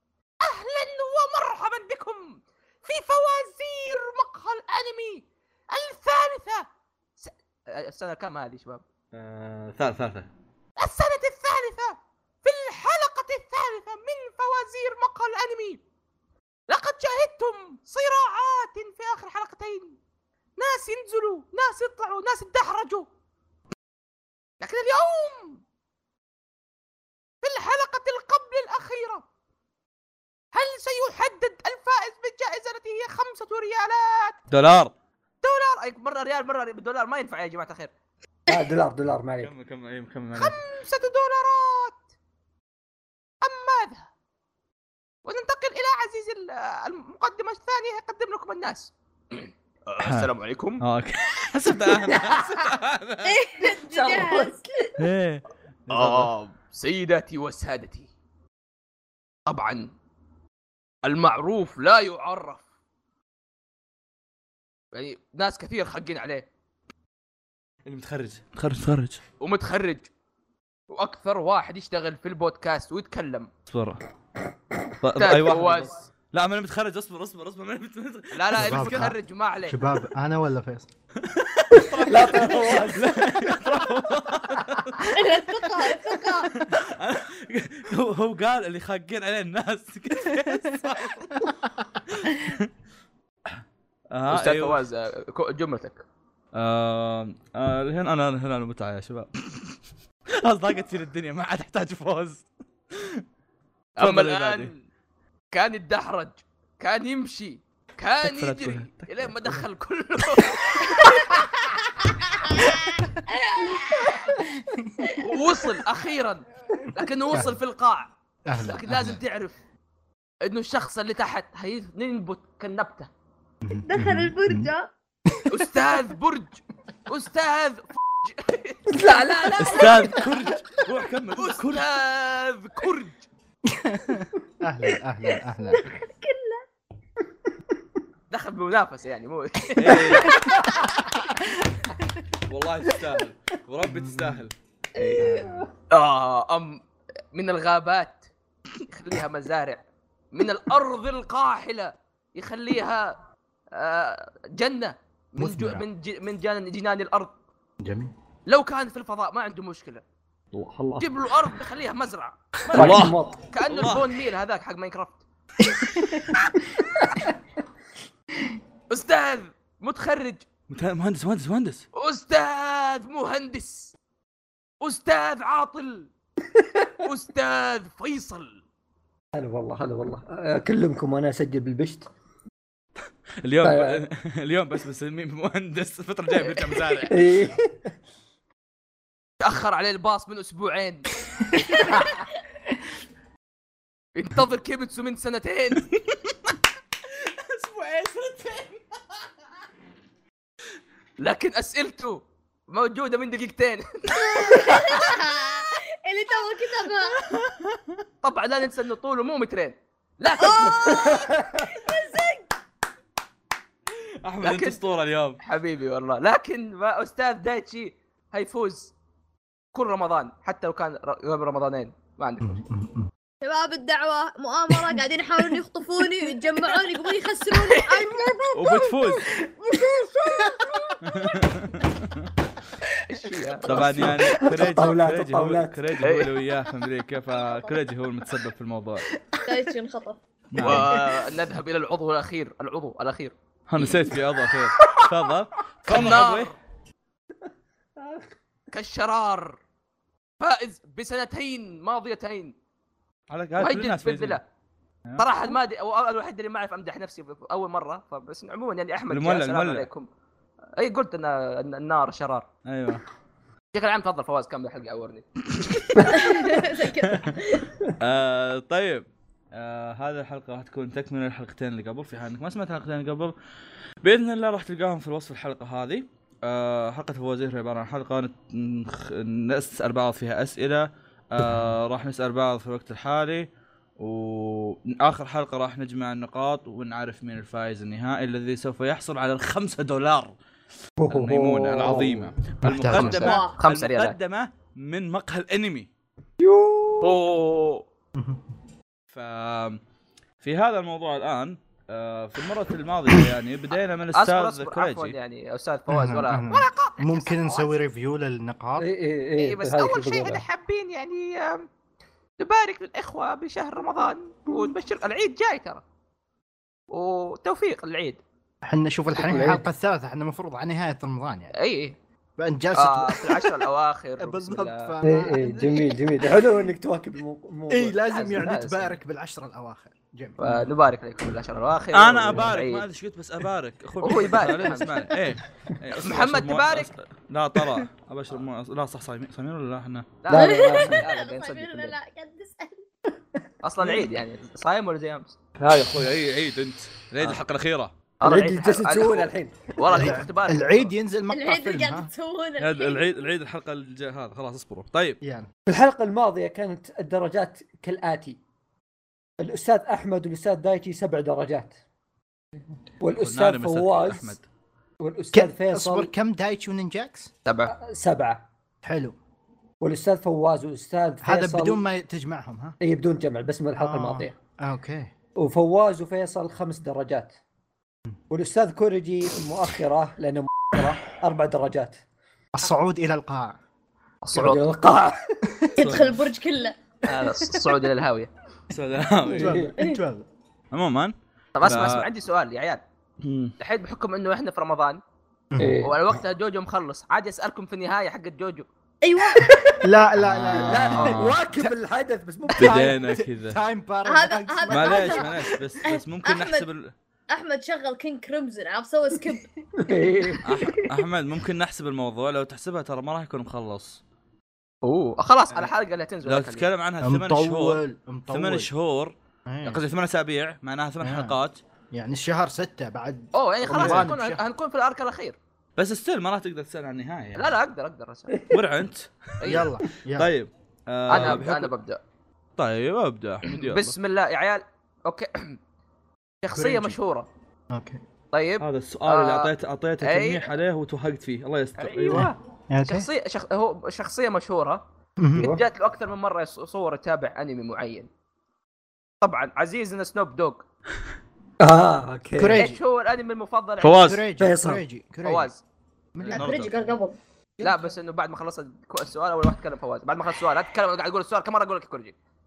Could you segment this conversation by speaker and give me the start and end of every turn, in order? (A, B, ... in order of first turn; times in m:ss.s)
0:00.4-0:06.7 A
0:07.2-0:08.8 A
0:09.1-0:10.3 B
0:10.8-0:15.8 A
0:16.7-0:20.0 A
0:20.6-0:23.1 A
0:24.6-0:25.6 A
0:27.4-0:29.2 A
0:30.5-0:34.4 A
0:34.5-0:34.9 B
0:35.4-0:37.9 A
0:38.5-0:39.5 C
0:39.4-0:40.6 B
0:40.3-0:42.0 A
0:43.4-0:44.1 A
0:45.2-0:50.8 A
0:50.0-0:53.4 B
0:53.2-0:55.0 D
0:53.6-0:54.6 C
0:55.0-0:56.3 B
0:55.9-0:58.1 A
0:59.5-0:59.9 A
1:01.0-1:02.6 A
1:04.9-1:06.5 A
1:07.8-1:09.2 B
1:09.4-1:10.1 A
1:10.9-1:13.5 A
1:13.7-1:14.0 B
1:15.0-1:19.1 B
1:15.2-1:16.0 A
1:18.3-1:19.8 A
1:18.6-1:20.9 E
1:21.2-1:25.0 B
1:21.7-1:23.6 C
1:24.9-1:25.4 A
1:25.1-1:26.6 D
1:26.4-1:31.5 B
1:30.2-1:30.9 E
1:32.1-1:32.7 B
1:33.4-1:34.8 B
1:34.3-1:36.0 A
1:36.5-1:39.8 B
1:40.4-1:43.2 B
1:44.0-1:44.7 B
1:44.0-1:44.8 A
1:45.5-1:51.8 A
1:48.2-1:49.5 B
1:53.3-1:54.2 D
1:54.3-1:55.1 E
1:55.0-1:55.3 D
1:55.2-1:59.6 A
1:57.3-1:57.6 E
1:58.4-1:59.2 E
2:00.4-2:03.1 A
2:03.6-2:04.7 E
2:03.9-2:04.9 D
2:05.5-2:09.0 A
2:08.9-2:10.2 C
2:09.0-2:10.2 D
2:09.6-2:11.8 B
2:11.3-2:13.2 A
2:13.6-2:15.8 E
2:15.7-2:16.6 D
2:18.3-2:20.4 A
2:19.8-2:20.5 B
2:20.2-2:20.8 D
2:22.4-2:24.5 B
2:23.8-2:24.4 E
2:25.0-2:25.4 D
2:25.1-2:25.6 E
2:25.9-2:26.8 A
2:27.3-2:28.3 A
2:28.8-2:33.2 A
2:33.7-2:37.3 A
2:35.4-2:35.8 E
2:37.8-2:38.1 E
2:38.5-2:40.0 A
2:40.5-2:41.1 B
2:41.0-2:45.2 A
2:42.7-2:44.1 B
2:42.7-2:43.4 C
2:45.7-2:46.2 E
2:48.9-2:50.4 A
2:50.7-2:51.8 B
2:51.9-2:53.9 A
2:54.8-2:56.1 A
2:56.6-2:56.9 C
2:57.0-2:58.6 A
2:59.3-3:02.1 C
3:03.4-3:07.2 B
3:03.6-3:04.0 C
3:06.5-3:06.9 A
3:07.1-3:07.9 C
3:09.4-3:11.1 A
3:11.5-3:11.7 E
3:14.1-3:16.0 A
3:17.4-3:18.7 B
3:21.2-3:25.0 A
3:24.2-3:27.3 D
3:27.3-3:28.0 B
3:28.2-3:31.2 A
3:30.4-3:32.5 D
3:34.2-3:35.4 B
3:34.4-3:34.8 A
3:35.4-3:38.9 A
3:39.7-3:42.6 A
3:42.4-3:43.1 E
3:43.4-3:49.1 D
3:47.5-3:48.3 A
3:48.5-3:49.3 B
3:49.6-3:51.3 D
3:51.0-3:52.3 B
3:53.0-3:54.4 A
3:53.6-3:54.4 D
3:53.6-3:59.0 B
3:54.2-3:55.8 C
3:56.0-3:56.5 A
3:57.3-3:57.8 D
3:59.4-4:00.2 D
4:00.5-4:01.0 B
4:00.6-4:03.3 A
4:03.7-4:06.5 B
4:05.8-4:06.6 A
4:08.0-4:08.3 C
4:08.7-4:09.6 A
4:10.4-4:12.5 A
4:13.3-4:14.4 B
4:13.6-4:14.4 A
4:15.2-4:20.1 A
4:19.1-4:19.9 B
4:20.8-4:22.5 A
4:22.6-4:23.0 B
4:23.7-4:26.3 A
4:25.5-4:26.0 B
4:26.0-4:27.7 D
4:26.8-4:27.4 B
4:28.0-4:33.3 B
4:34.0-4:50.4 B
4:51.0-4:52.3 C
4:51.1-4:55.9 B
4:52.6-4:53.3 E
4:52.9-4:54.2 A
4:53.2-4:53.6 D
4:56.4-4:57.1 C
4:57.0-4:57.8 A
4:58.1-4:58.4 E
4:59.1-4:59.8 B
5:00.4-5:05.2 B
5:04.1-5:07.8 A
5:05.9-5:08.9 E
5:08.8-5:10.4 C
5:09.4-5:11.7 A
5:12.4-5:15.8 A
5:16.9-5:18.2 A
5:18.6-5:21.5 E
5:19.2-5:19.6 C
5:21.5-5:22.0 A
5:22.4-5:23.6 E
5:22.7-5:25.0 A
5:24.2-5:26.0 E
5:25.0-5:28.0 C
5:27.7-5:30.4 E
5:28.0-5:28.9 A
5:30.4-5:32.8 A
5:30.4-5:30.7 C
5:31.9-5:40.1 B
5:34.0-5:35.0 A
5:35.9-5:36.9 A
5:40.2-5:41.9 A
5:40.3-5:41.0 C
5:40.3-5:42.8 D
5:43.6-5:45.4 A
5:45.6-5:48.0 B
5:48.2-5:50.9 A
5:48.2-5:49.7 C
5:49.9-5:52.1 E
5:51.3-5:53.0 D
5:52.6-5:55.2 B
5:55.2-5:55.5 E
5:55.7-5:58.4 C
5:59.4-6:01.8 C
6:03.0-6:04.4 C
6:03.2-6:04.4 B
6:05.0-6:06.1 C
6:05.3-6:07.3 E
6:07.4-6:07.7 A
6:07.7-6:08.4 C
6:08.8-6:09.2 E
6:09.8-6:11.8 C
6:11.2-6:12.8 E
6:12.8-6:14.3 C
6:13.8-6:15.1 E
6:15.4-6:17.4 C
6:18.3-6:22.0 C
6:22.6-6:23.6 E
6:24.2-6:24.6 A
6:24.3-6:25.5 C
6:25.5-6:25.9 E
6:25.7-6:26.8 D
6:25.8-6:26.2 B
6:27.0-6:28.3 A
6:28.7-6:29.6 B
6:29.3-6:29.7 C
6:29.3-6:30.2 E
6:30.7-6:32.1 B
6:31.6-6:32.8 A
6:33.2-6:33.5 B
6:33.6-6:35.0 A
6:35.5-6:35.8 E
6:35.6-6:36.0 C
6:35.8-6:38.7 A
6:39.0-6:39.7 D
6:39.8-6:41.7 E
6:40.2-6:41.4 B
6:40.6-6:42.9 C
6:42.6-6:43.6 B
6:42.6-6:45.5 E
6:44.0-6:45.3 D
6:44.7-6:46.9 B
6:45.8-6:46.6 D
6:47.3-6:49.5 D
6:49.8-6:50.9 C
6:50.4-6:54.0 B
6:54.8-6:56.6 A
6:56.2-7:01.6 B
6:57.0-6:58.7 E
6:59.5-6:59.8 E
7:01.0-7:01.4 E
7:01.9-7:04.4 E
7:03.3-7:05.4 A
7:03.7-7:04.1 B
7:05.8-7:07.5 B
7:07.4-7:08.5 A
7:08.3-7:08.6 C
7:08.5-7:11.7 B
7:09.4-7:09.7 A
7:09.4-7:10.3 E
7:11.1-7:12.0 A
7:12.6-7:14.0 B
7:13.4-7:15.6 A
7:16.4-7:17.3 A
7:16.5-7:17.0 E
7:17.7-7:18.0 E
7:18.3-7:20.5 A
7:18.6-7:22.3 B
7:21.8-7:24.8 A
7:22.1-7:23.1 E
7:25.2-7:25.5 E
7:25.4-7:25.6 C
7:25.4-7:28.1 A
7:29.2-7:30.6 A
7:31.6-7:32.6 C
7:32.4-7:32.8 E
7:32.6-7:34.1 A
7:33.8-7:34.2 B
7:34.0-7:35.5 E
7:34.4-7:34.8 C
7:35.2-7:35.6 A
7:36.1-7:36.9 E
7:36.2-7:36.8 B
7:36.3-7:37.2 D
7:37.6-7:42.2 A